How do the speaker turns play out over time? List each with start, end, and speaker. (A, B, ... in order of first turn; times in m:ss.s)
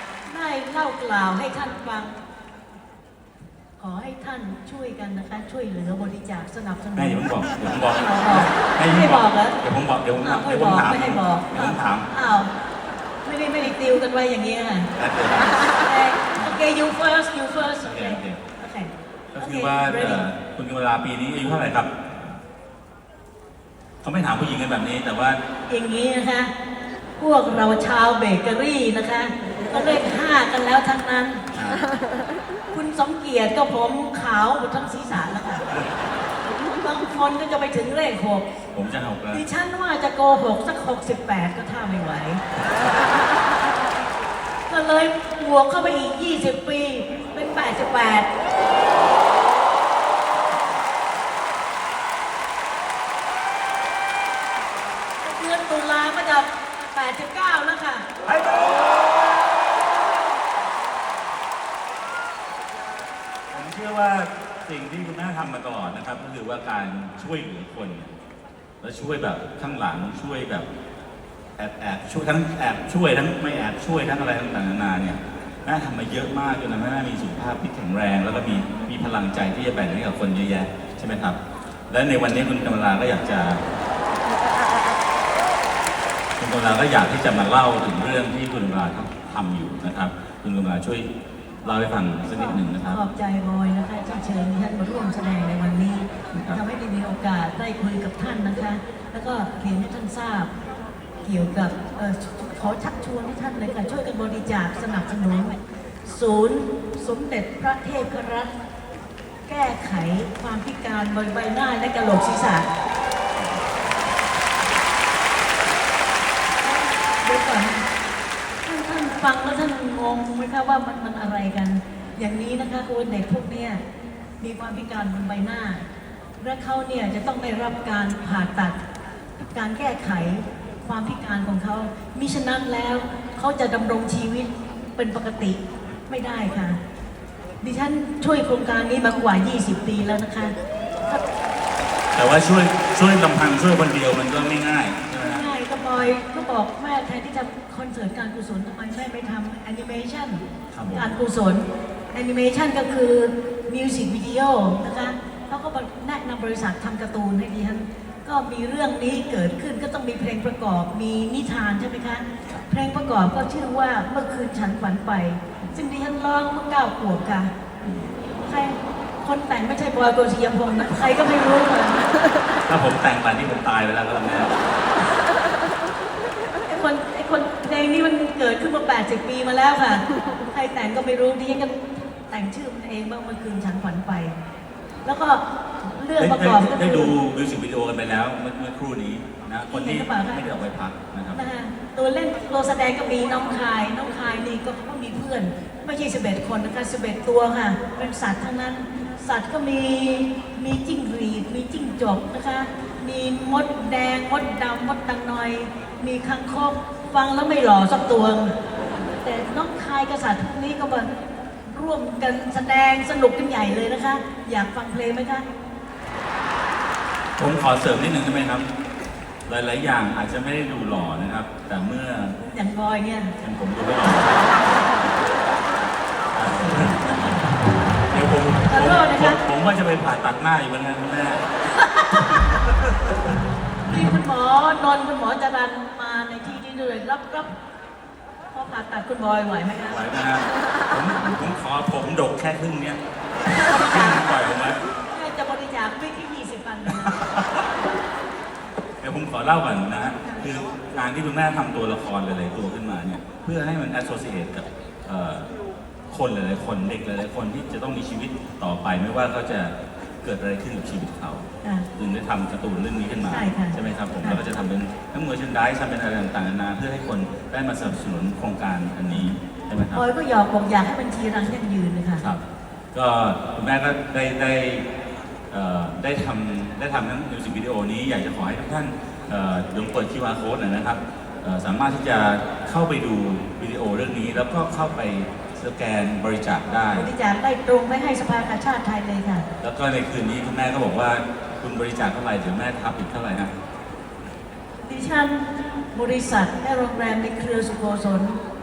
0:00.3-0:02.2 A
0:03.8-0:09.6 A
0:07.0-0:12.1 B
0:10.2-0:12.5 A
0:13.2-0:14.9 A
0:15.0-0:15.8 B
0:15.6-0:20.2 A
0:17.8-0:18.4 B
0:19.4-0:21.9 B
0:24.0-0:25.4 B
0:25.7-0:26.5 A
0:27.2-0:31.4 A
0:31.5-0:31.8 B
0:32.7-0:35.8 A
0:36.6-0:38.5 A
0:38.8-0:39.4 B
0:39.3-0:42.4 A
0:44.7-0:48.3 A
0:55.2-0:58.1 A
0:58.2-0:59.3 B
1:03.5-1:08.1 B
1:08.8-1:10.7 B
1:11.6-1:21.4 B
1:21.9-1:23.6 B
1:26.4-1:31.1 B
1:31.6-1:33.0 B
1:32.4-1:40.5 A
1:36.3-1:36.6 B
1:41.2-1:48.5 A
1:49.5-1:52.7 A
1:56.6-1:57.9 A
1:58.6-2:03.8 A
2:04.4-2:05.9 A
2:06.4-2:08.8 A
2:09.4-2:16.8 A
2:17.6-2:20.6 A
2:22.1-2:25.4 B
2:25.2-2:47.5 A
2:30.7-2:31.1 B
2:47.8-2:48.1 B
2:48.4-2:52.2 A
2:52.6-2:54.6 B
2:56.7-3:04.3 A
3:05.0-3:07.1 A
3:06.2-3:11.4 B
3:09.7-3:10.4 A
3:11.3-3:28.6 A
3:29.2-3:31.1 A
3:31.7-3:35.4 A
3:37.4-3:38.7 B
3:39.5-3:42.4 B
3:42.4-3:43.3 A
3:43.4-3:45.3 B
3:46.3-3:47.5 B
3:48.1-3:51.4 B
3:48.7-3:49.4 A
3:51.7-3:52.5 A
3:52.7-3:53.3 B
3:53.8-3:57.5 A
3:58.5-4:00.1 A
3:59.9-4:03.0 B
4:03.5-4:04.8 B
4:03.6-4:04.3 A
4:04.9-4:07.3 A
4:07.1-4:07.6 B
4:09.0-4:15.5 B
4:16.1-4:21.4 B
4:22.0-4:30.0 B
4:23.3-4:24.4 A
4:29.9-4:32.2 A
4:32.9-4:34.9 B
4:35.5-4:47.1 B
4:46.9-4:49.4 A
4:49.6-4:53.5 B
4:54.8-4:58.4 A